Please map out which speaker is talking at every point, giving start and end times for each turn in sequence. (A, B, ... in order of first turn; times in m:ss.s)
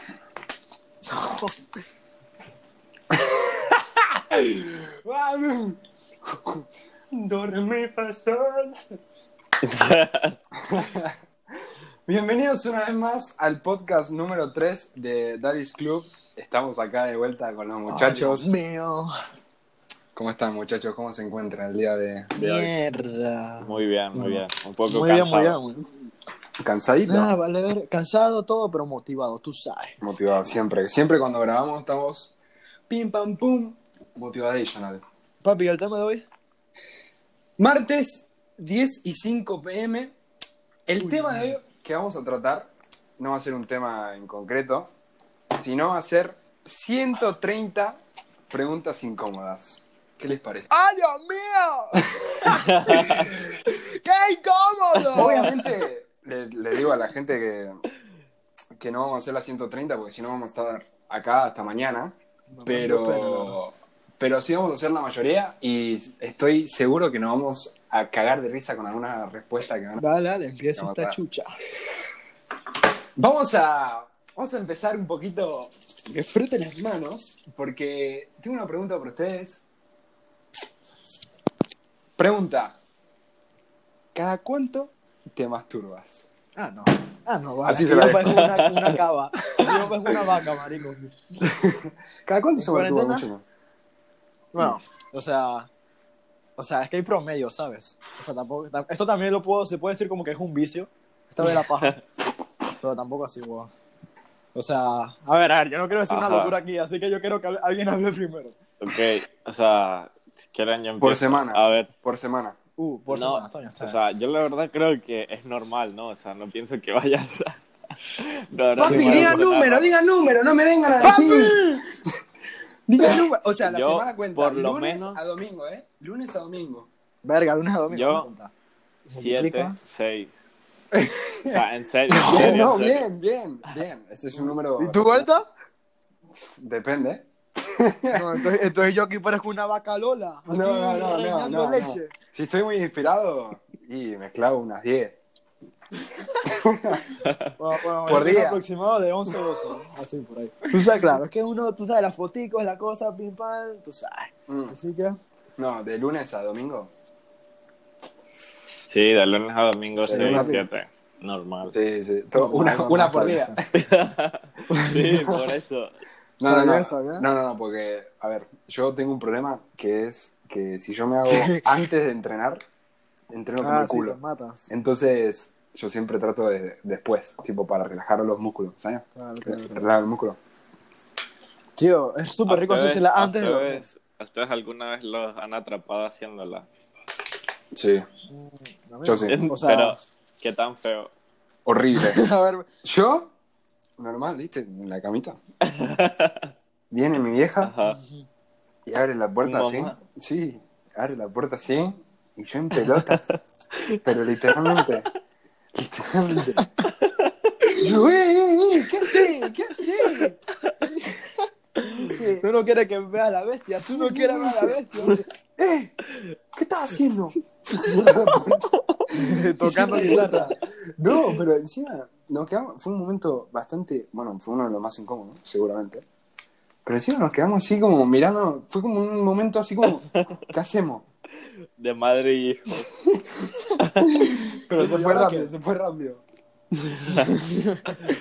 0:01.1-0:01.5 A
0:03.1-0:08.8 B
0:09.6-0:10.4 C
0:10.6-0:11.1 B
0:12.0-0:18.6 B
0:17.9-0:19.1 A
0:20.1-0:22.7 B
0:22.3-0:25.8 A
0:23.6-0:25.6 C
0:26.6-0:27.3 B
0:27.0-0:30.0 A
0:30.0-0:32.3 B
0:32.9-0:35.0 B
0:35.4-0:36.2 A
0:37.6-0:40.1 B
0:40.9-0:44.9 B
0:41.0-0:41.5 A
0:45.6-0:50.7 B
0:50.7-0:55.7 A
0:52.8-0:53.2 C
0:55.1-0:57.7 B
0:58.8-1:10.0 B
1:02.5-1:03.6 A
1:10.0-1:11.5 A
1:10.8-1:11.2 B
1:13.2-1:19.7 B
1:22.2-1:22.8 B
1:24.1-1:26.3 B
1:26.6-1:31.1 A
1:27.6-1:28.5 B
1:28.4-1:28.9 C
1:29.5-1:29.8 B
1:31.4-1:33.4 B
1:32.6-1:33.3 A
1:34.5-1:35.7 A
1:36.6-1:42.0 A
1:41.4-1:41.9 C
1:42.8-1:43.7 A
1:44.5-1:48.6 A
1:46.1-1:46.6 C
1:48.8-1:51.9 C
1:51.0-1:52.6 B
1:52.8-1:54.0 A
1:53.1-1:57.6 C
1:58.1-1:59.9 C
1:58.8-2:01.8 B
1:58.8-1:59.4 A
2:00.9-2:01.6 A
2:02.9-2:06.9 B
2:03.6-2:05.3 C
2:07.2-2:08.5 A
2:07.9-2:08.3 C
2:09.0-2:10.5 C
2:09.1-2:09.8 A
2:10.9-2:11.6 B
2:11.4-2:13.1 C
2:12.1-2:15.3 B
2:12.3-2:12.7 A
2:14.3-2:15.5 A
2:16.6-2:18.2 B
2:18.1-2:22.1 A
2:20.5-2:25.2 B
2:26.4-2:27.0 B
2:27.6-2:35.2 A
2:28.1-2:28.6 B
2:34.5-2:34.8 B
2:35.6-2:36.9 B
2:38.9-2:41.7 C
2:40.1-2:40.6 B
2:40.1-2:40.6 A
2:41.7-2:43.6 B
2:42.3-2:43.6 A
2:43.7-2:45.9 C
2:44.7-2:45.1 A
2:46.4-2:52.6 B
2:46.4-2:47.2 A
2:51.2-2:51.7 A
2:53.3-2:54.2 B
2:53.6-2:54.7 A
2:54.7-3:00.4 B
2:59.1-2:59.9 A
3:01.8-3:03.8 A
3:02.4-3:06.7 C
3:07.7-3:08.0 B
3:08.3-3:10.0 A
3:09.0-3:09.4 B
3:09.3-3:11.1 C
3:11.6-3:12.2 B
3:11.9-3:12.6 A
3:12.8-3:13.3 B
3:14.0-3:15.4 B
3:15.7-3:16.5 C
3:16.9-3:17.7 B
3:17.6-3:18.0 C
3:17.8-3:18.2 A
3:18.8-3:23.4 B
3:19.4-3:20.0 C
3:22.7-3:24.9 C
3:24.0-3:25.1 B
3:25.8-3:26.7 B
3:26.8-3:27.3 C
3:27.8-3:30.4 B
3:31.8-3:32.4 B
3:32.4-3:35.2 A
3:33.8-3:35.9 B
3:36.5-3:46.0 B
3:39.1-3:40.6 A
3:46.8-3:51.0 B
3:51.8-3:53.0 C
3:53.8-3:54.1 C
3:54.0-3:56.2 B
3:54.7-3:55.5 A
3:57.2-3:58.0 A